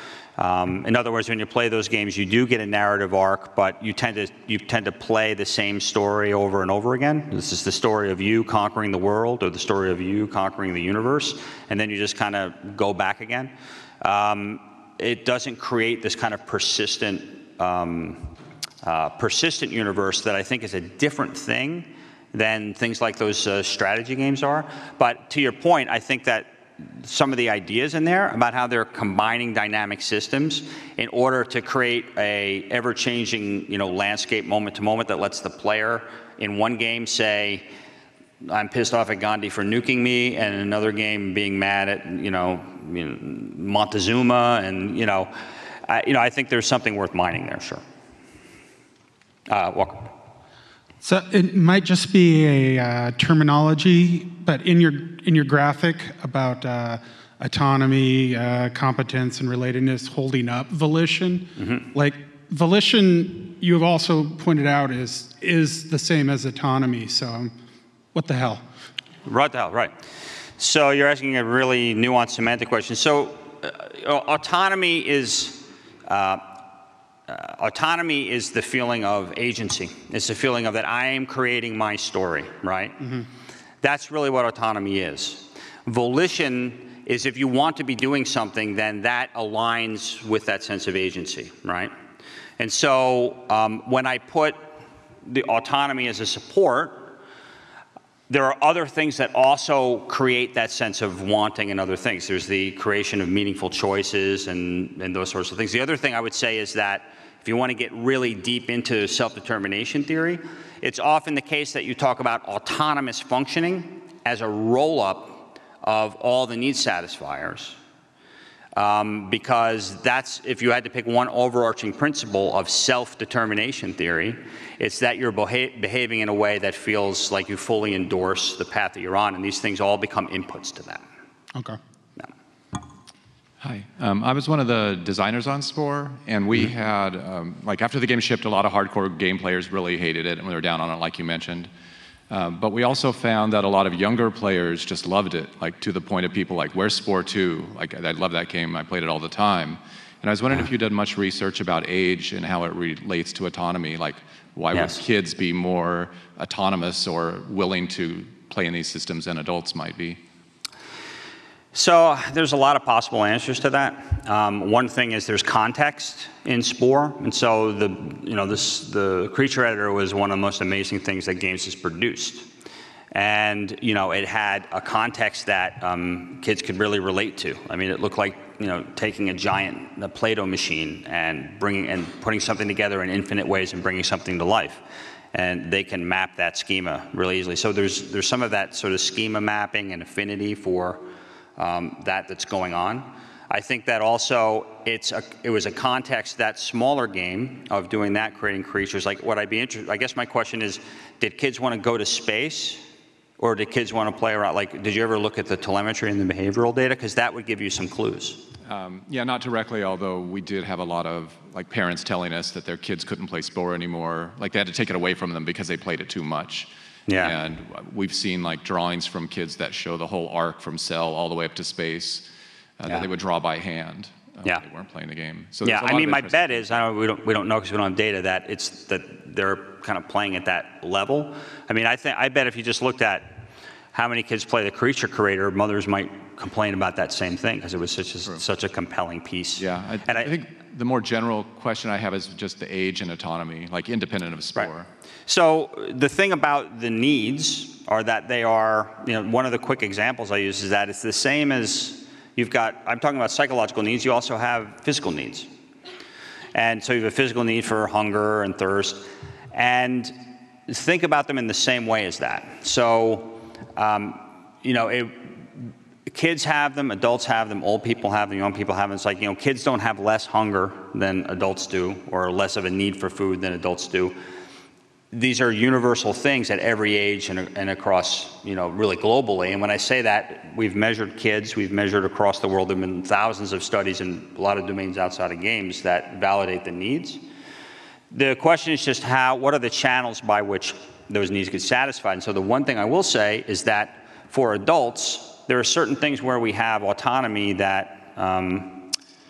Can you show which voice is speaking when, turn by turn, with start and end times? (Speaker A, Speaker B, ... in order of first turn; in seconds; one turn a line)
Speaker A: 0.4-37.7
Speaker A: 38.4-45.3
Speaker A: 45.9-47.8
Speaker A: 49.5-50.1
Speaker B: 51.0-67.5
Speaker B: 68.1-68.6
Speaker A: 69.3-70.0
Speaker A: 70.6-76.6
Speaker A: 77.3-83.2
Speaker A: 83.8-91.9
Speaker A: 92.6-94.8
Speaker A: 95.3-97.2
Speaker A: 98.3-117.8
Speaker A: 118.8-131.0
Speaker B: 131.5-131.8
Speaker C: 133.6-141.7
Speaker C: 142.3-160.2
Speaker A: 154.7-155.0
Speaker A: 161.7-172.5
Speaker A: 173.1-191.0
Speaker A: 191.6-202.8
Speaker A: 203.4-208.5
Speaker C: 208.6-222.3
Speaker A: 217.1-217.3
Speaker C: 222.8-226.9
Speaker A: 225.6-240.3
Speaker C: 239.6-244.9
Speaker A: 245.3-255.5
Speaker A: 256.5-260.1
Speaker A: 260.7-274.2
Speaker A: 275.1-287.2
Speaker A: 288.1-298.9